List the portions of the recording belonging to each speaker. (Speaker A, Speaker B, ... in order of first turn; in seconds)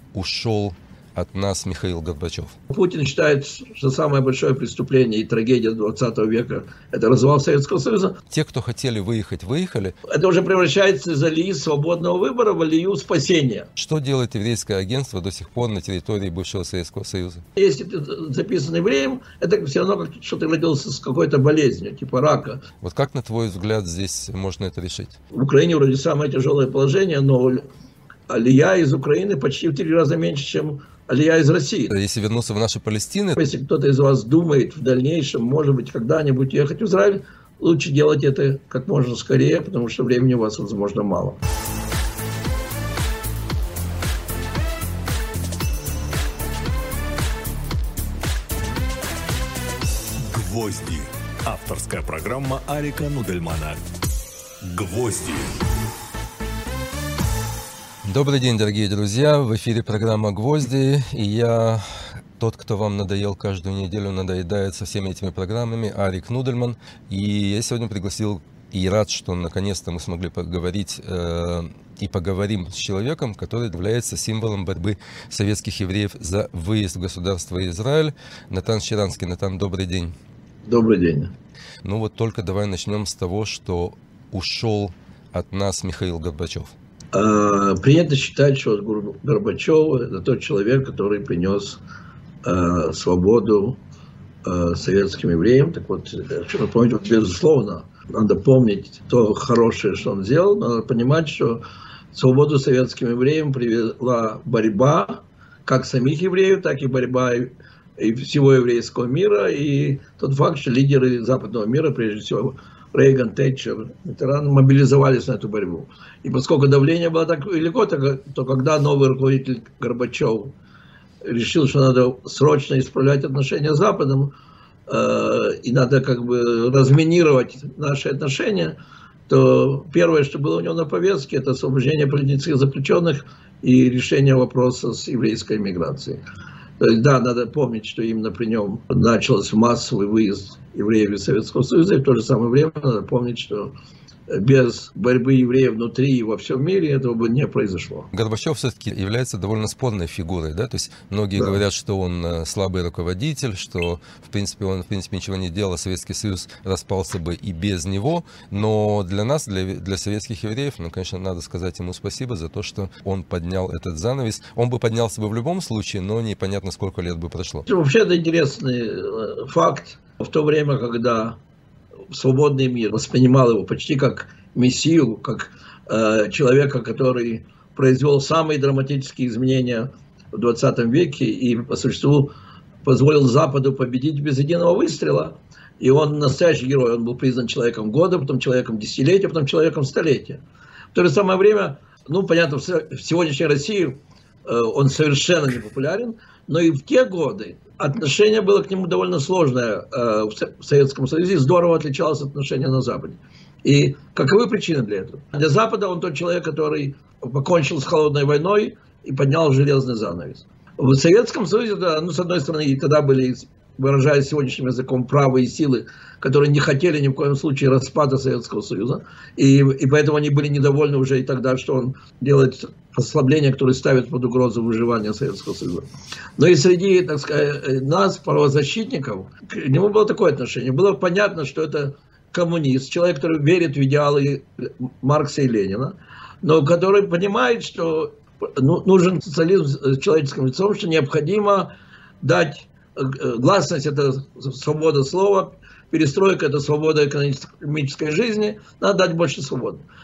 Speaker A: 0.1-2.5, 8.3-9.9, 13.8-17.4, 22.8-25.2, 31.9-33.4, 58.0-80.1, 81.8-86.7, 148.1-167.7
Speaker B: 2.7-8.2, 10.1-13.7, 17.6-22.6, 25.3-27.6, 28.3-31.9, 33.4-41.4, 80.7-81.3, 87.1-91.8, 92.4-93.8, 94.4-101.6, 102.1-120.5, 121.2-124.3, 124.9-128.8, 129.3-136.2, 136.8-143.8, 144.3-148.1, 167.7-171.4, 172.1-182.3, 182.8-190.4, 190.9-241.7, 242.2-249.8
Speaker C: 50.2-53.9, 54.6-55.6